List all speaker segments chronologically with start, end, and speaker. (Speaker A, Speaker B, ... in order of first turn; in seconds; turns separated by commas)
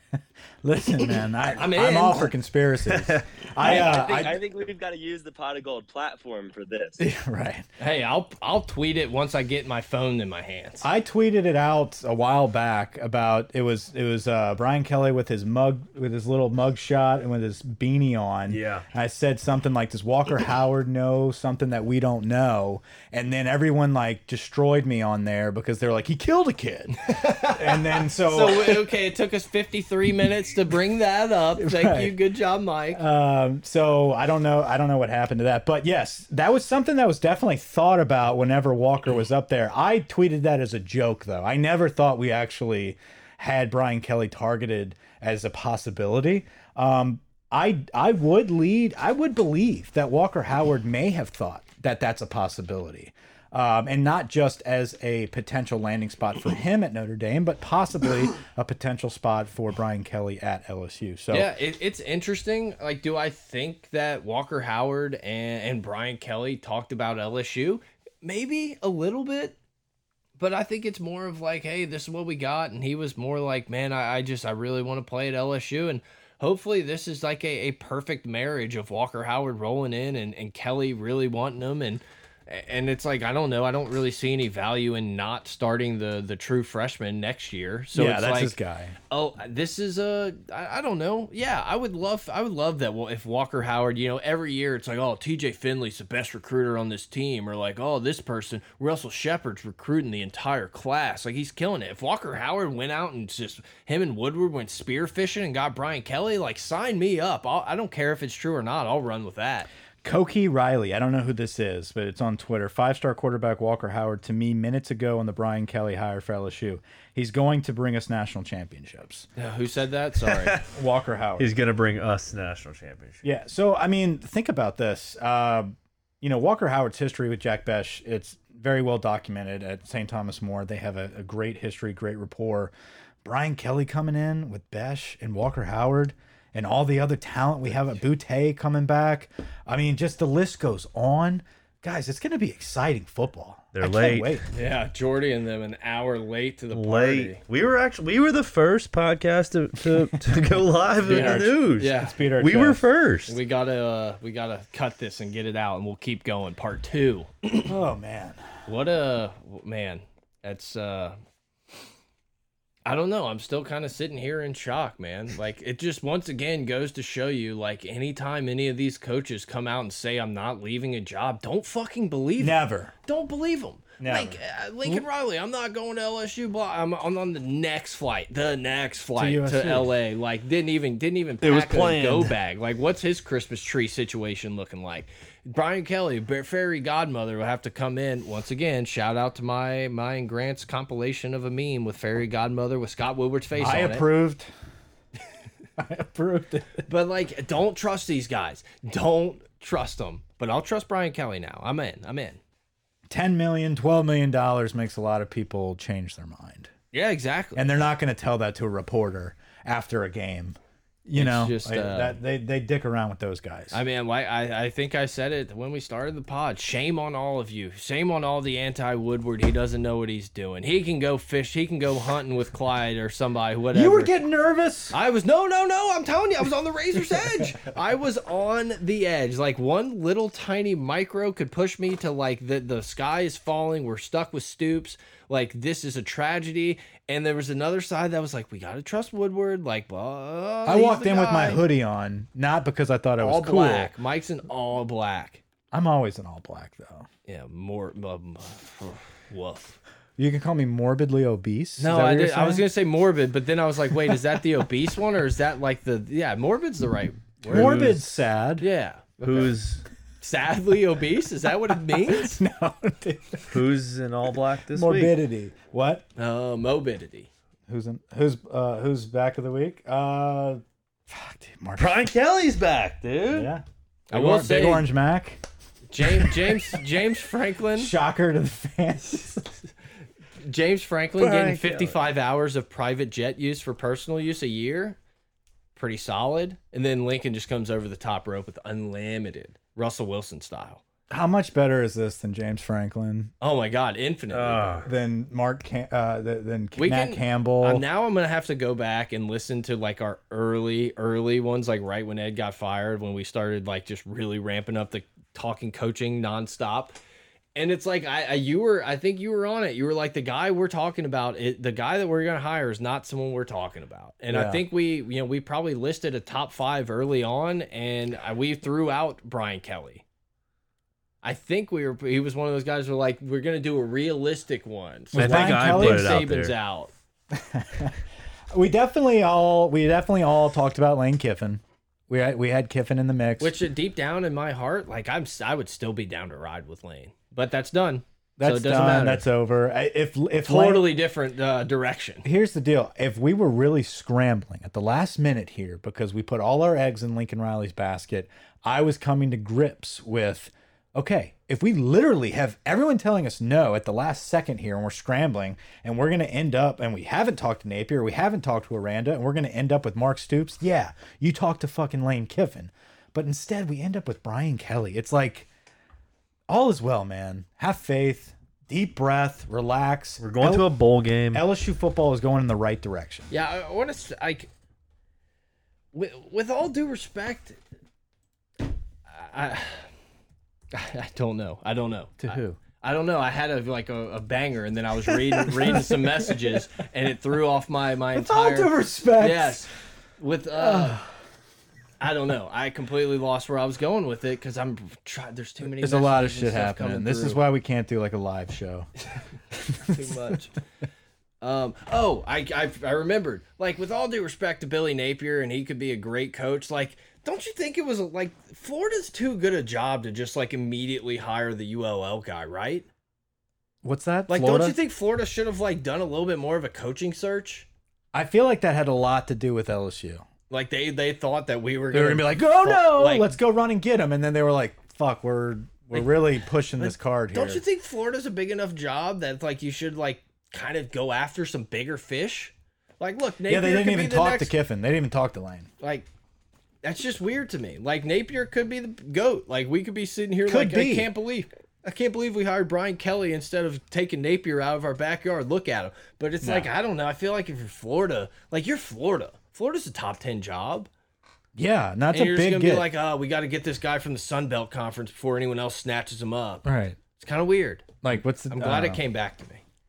Speaker A: 0.6-4.4, Speaker B: 1.5-2.3, Speaker C: 2.9-3.2, Speaker D: 3.6-7.0, Speaker B: 3.6-4.2, Speaker A: 7.0-7.7, Speaker B: 7.8-10.9, Speaker A: 10.8-28.9, Speaker C: 18.5-18.8, Speaker B: 27.0-33.0, Speaker A: 31.6-32.1, Speaker A: 32.9-61.5, Speaker B: 61.3-69.5, Speaker B: 70.4-88.5, Speaker A: 87.9-89.0, Speaker B: 89.1-109.7, Speaker A: 110.0-119.3, Speaker B: 119.4-120.6, Speaker C: 120.3-120.6, Speaker A: 120.7-121.5, Speaker C: 121.4-123.2, Speaker A: 123.2-132.7, Speaker A: 133.2-144.4, Speaker C: 143.7-144.4, Speaker B: 144.5-147.4, Speaker C: 146.7-153.3, Speaker A: 151.0-152.8, Speaker B: 151.0-152.2, Speaker B: 153.3-157.7, Speaker A: 157.7-158.4, Speaker B: 158.7-161.2, Speaker B: 162.8-194.1, Speaker A: 172.4-172.9, Speaker A: 174.0-175.0, Speaker A: 179.2-179.9, Speaker C: 181.4-182.3, Speaker A: 193.6-194.5, Speaker A: 195.8-196.8, Speaker B: 196.9-202.4, Speaker A: 203.1-206.7, Speaker B: 206.9-207.7, Speaker A: 207.5-213.8, Speaker B: 211.2-212.2, Speaker B: 213.7-224.1, Speaker A: 223.7-224.9, Speaker B: 224.9-241.6, Speaker A: 240.6-243.9, Speaker B: 243.2-245.4, Speaker A: 245.7-247.1, Speaker B: 247.2-249.8, Speaker A: 250.2-252.7, Speaker B: 251.8-257.8, Speaker C: 257.4-258.0, Speaker A: 257.5-258.7, Speaker B: 258.6-259.5, Speaker C: 259.2-259.8, Speaker B: 260.2-262.4, Speaker A: 261.9-263.6, Speaker C: 263.5-265.1, Speaker A: 264.7-266.1, Speaker B: 266.2-267.3, Speaker A: 267.7-272.0, Speaker C: 271.8-273.5, Speaker A: 273.3-275.4, Speaker B: 274.1-274.9, Speaker B: 275.9-277.9, Speaker A: 276.2-276.7, Speaker A: 277.7-279.5, Speaker B: 280.4-285.0, Speaker C: 281.2-282.0, Speaker B: 285.7-290.8, Speaker A: 291.1-293.3, Speaker B: 293.4-294.9, Speaker C: 294.3-294.9, Speaker A: 294.9-297.8, Speaker B: 296.8-307.0, Speaker B: 307.5-320.0, Speaker A: 314.3-314.6, Speaker B: 321.2-326.9, Speaker A: 325.1-326.3, Speaker C: 325.1-326.5, Speaker A: 327.3-328.0, Speaker A: 328.5-333.5, Speaker B: 333.4-339.3, Speaker A: 338.4-340.9, Speaker B: 340.4-342.3, Speaker A: 342.2-365.5, Speaker A: 366.5-370.7, Speaker C: 370.2-371.4, Speaker A: 371.3-373.3, Speaker B: 373.3-374.5, Speaker B: 375.9-377.6, Speaker B: 379.1-379.9, Speaker B: 380.7-391.0, Speaker A: 382.2-382.6, Speaker A: 388.1-389.7, Speaker A: 390.6-391.1, Speaker B: 392.0-397.4, Speaker A: 395.8-398.9, Speaker A: 399.5-400.1, Speaker B: 399.8-400.5, Speaker B: 401.4-412.9, Speaker A: 413.8-414.8, Speaker B: 414.3-417.7, Speaker A: 418.1-420.2, Speaker B: 420.5-423.3, Speaker A: 421.9-427.6, Speaker B: 425.9-426.2, Speaker B: 426.8-434.5, Speaker A: 433.5-435.7, Speaker B: 435.8-436.1, Speaker B: 436.8-450.9, Speaker A: 440.4-441.1, Speaker A: 446.4-446.7, Speaker A: 451.5-452.9, Speaker B: 452.1-459.6, Speaker A: 456.6-457.0, Speaker A: 458.0-459.0